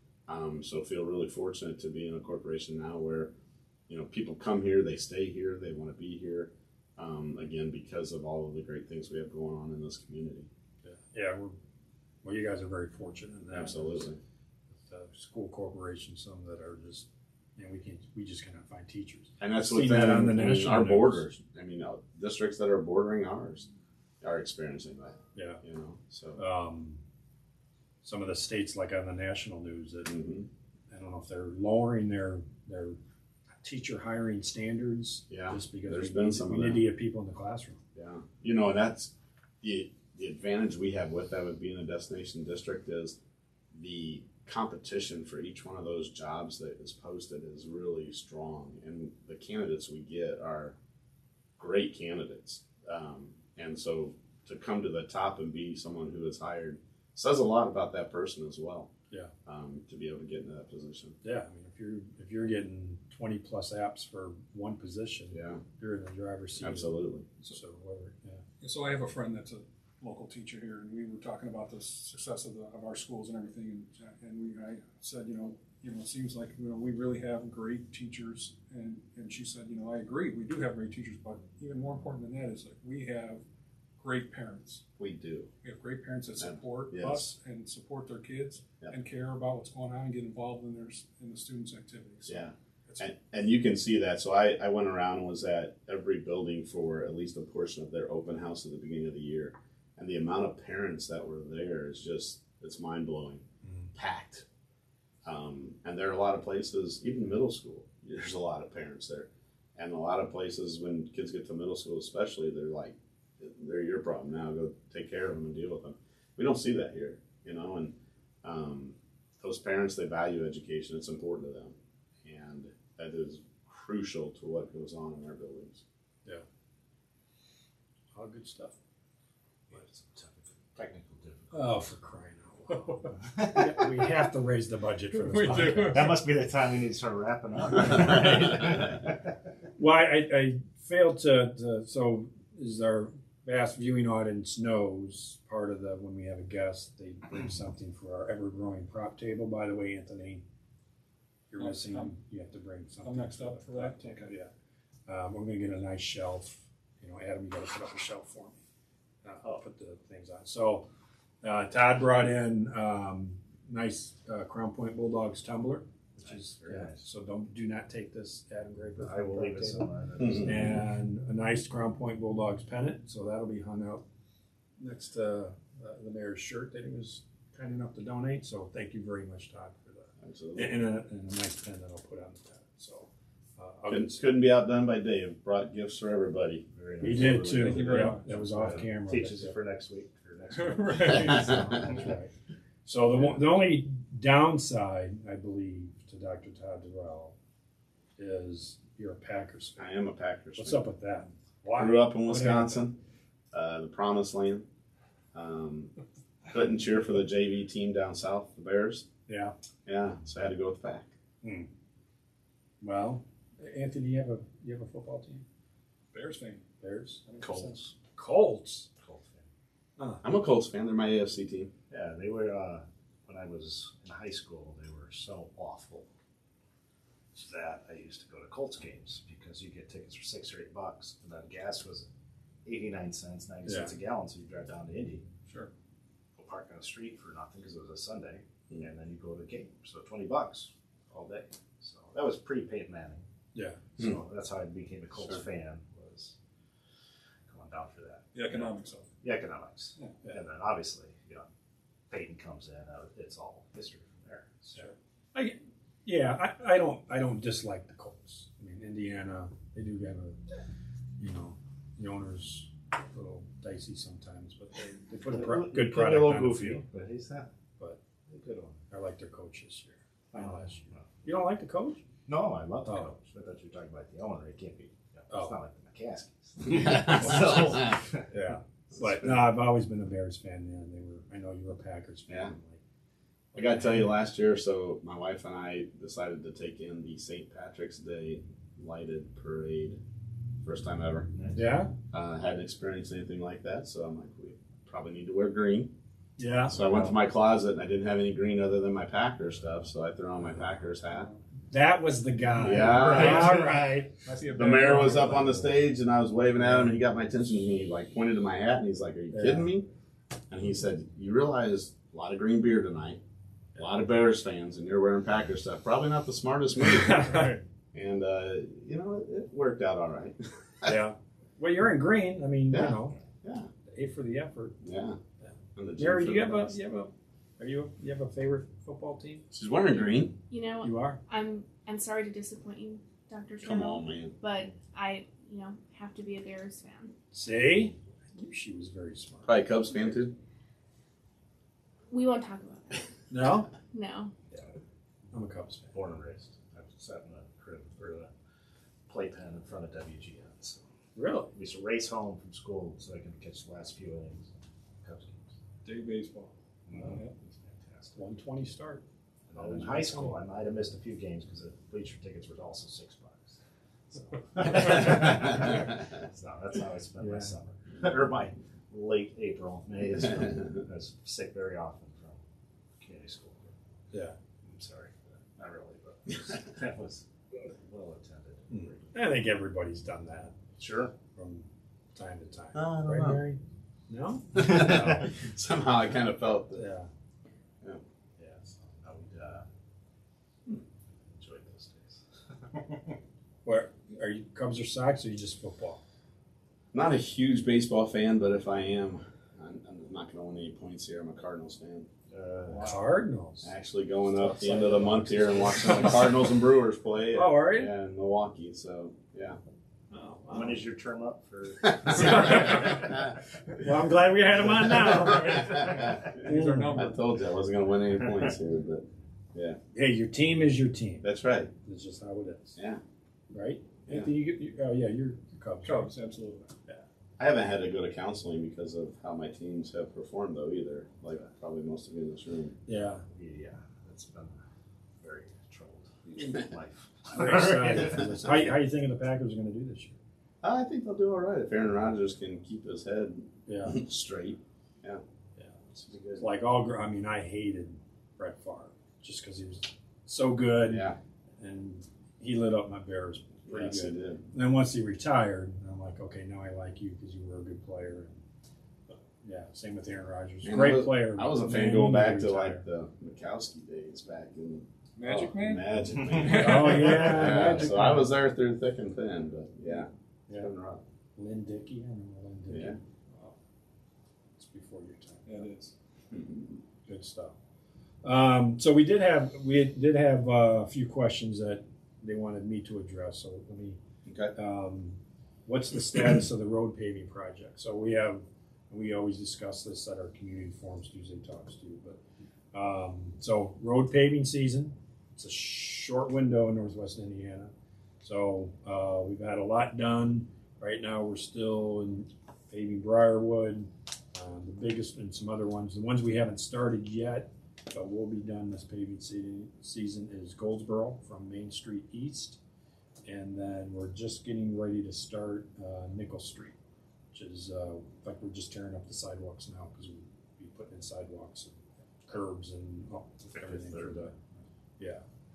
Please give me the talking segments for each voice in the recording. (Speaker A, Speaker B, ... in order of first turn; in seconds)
Speaker A: 0.3-3.3, 3.9-10.5, 13.5-14.2, 19.4-23.7, 24.2-26.4, 30.1-30.5, 35.3-36.9, 37.9-43.2, 43.7-50.8, 51.6-58.9, 59.5-61.1, 65.3-65.6, 66.6-67.3, 85.0-85.5, 86.4-87.3, 92.2-104.5, 105.2-125.8, 170.2-170.7, 180.2-180.8, 183.9-187.4, 191.1-191.8, 199.8-200.8, 201.7-203.0, 203.5-204.7, 205.3-205.9, 206.5-209.1, 209.8-211.1, 220.2-221.7, 276.6-278.0, 282.3-282.5, 283.5-290.0, 290.6-291.5, 292.1-295.9, 296.7-301.3, 302.6-303.8, 304.5-309.9, 310.5-313.2, 313.7-321.0, 322.7-323.7, 324.8-325.2, 325.8-326.8, 329.5-330.4, 333.6-334.4, 339.4-340.3, 365.4-365.7, 382.7-383.5, 384.5-386.9, 396.9-402.1, 403.6-409.6, 411.9-413.3, 414.7-419.8, 421.2-421.7, 422.8-423.0, 427.4-432.8, 440.6-445.2, 450.9-451.2, 453.7-454.4, 460.6-471.0, 472.7-473.0, 476.3-476.8, 484.2-484.5, 523.6-524.3
Speaker B: 10.8-11.6, 12.2-14.0, 14.7-21.3, 25.3-25.6, 26.4-27.0, 28.0-30.2, 30.9-33.0, 33.6-37.8, 61.2-68.4, 103.6-103.9, 128.1-128.8, 131.5-136.2, 139.8-150.4, 151.5-154.5, 155.1-158.6, 159.2-160.9, 161.4-169.9, 170.4-174.0, 174.8-184.2, 187.0-189.6, 191.0-192.3, 192.8-197.3, 198.2-199.8, 200.5-202.8, 209.3-209.5, 211.4-211.7, 212.8-215.4, 216.8-218.9, 220.0-220.2, 233.7-233.9, 243.5-243.8, 254.7-260.4, 261.2-266.8, 268.9-272.0, 272.8-273.1, 275.3-275.6, 278.3-282.8, 291.5-291.9, 296.4-296.8, 301.7-304.2, 309.3-309.7, 317.0-317.6, 320.8-323.2, 323.9-324.8, 325.4-329.4, 330.8-331.2, 337.3-339.6, 343.3-343.7, 345.3-346.0, 351.1-351.5, 356.9-357.2, 358.1-359.0, 359.5-360.4, 367.2-367.6, 374.1-374.4, 378.7-380.6, 381.2-383.6, 384.1-385.2, 386.8-387.1, 393.6-396.0, 402.7-403.7, 404.4-406.3, 407.3-407.9, 410.1-410.8, 412.1-413.2, 413.7-417.0, 419.9-421.3, 421.8-422.8, 423.5-426.1, 432.9-433.2, 437.3-440.2, 443.7-444.0, 445.6-458.4, 459.1-462.8, 466.4-468.3, 471.4-473.6, 474.6-475.7, 477.1-477.6, 478.2-484.0, 484.5-492.2, 492.7-512.6, 513.2-516.8, 517.3-524.3, 525.0-525.2
Speaker C: 68.6-83.4, 84.0-84.8, 85.6-93.1, 135.1-136.2, 151.6-152.1, 153.0-154.3, 187.4-188.4, 190.5-191.5, 216.1-216.6, 217.3-217.5, 248.3-249.1, 302.8-303.7, 304.2-305.6, 355.8-357.3, 416.1-417.2, 425.8-426.7, 465.2-467.6, 475.5-475.9
Speaker D: 129.7-131.7, 133.1-134.1, 135.7-139.2, 166.2-167.0, 169.0-170.9, 186.7-192.1, 217.4-217.9, 219.0-219.4, 221.9-226.1, 227.3-232.1, 232.6-235.2, 236.3-243.2, 244.0-246.3, 247.5-248.7, 249.2-251.4, 252.1-254.9, 265.2-267.5, 268.3-268.8, 270.3-271.1, 272.3-278.3, 278.9-279.5, 296.8-297.1, 345.9-348.3, 349.1-350.8, 351.5-355.5, 356.9-358.1, 359.5-363.6, 364.1-372.4, 373.0-373.7, 374.6-379.1, 380.8-381.1, 388.4-389.7, 391.2-393.2, 402.3-403.0, 410.5-413.3, 433.3-434.6, 435.2-438.5, 446.1-446.4, 466.1-467.2
Speaker E: 330.5-337.1, 342.1-343.1, 343.9-344.3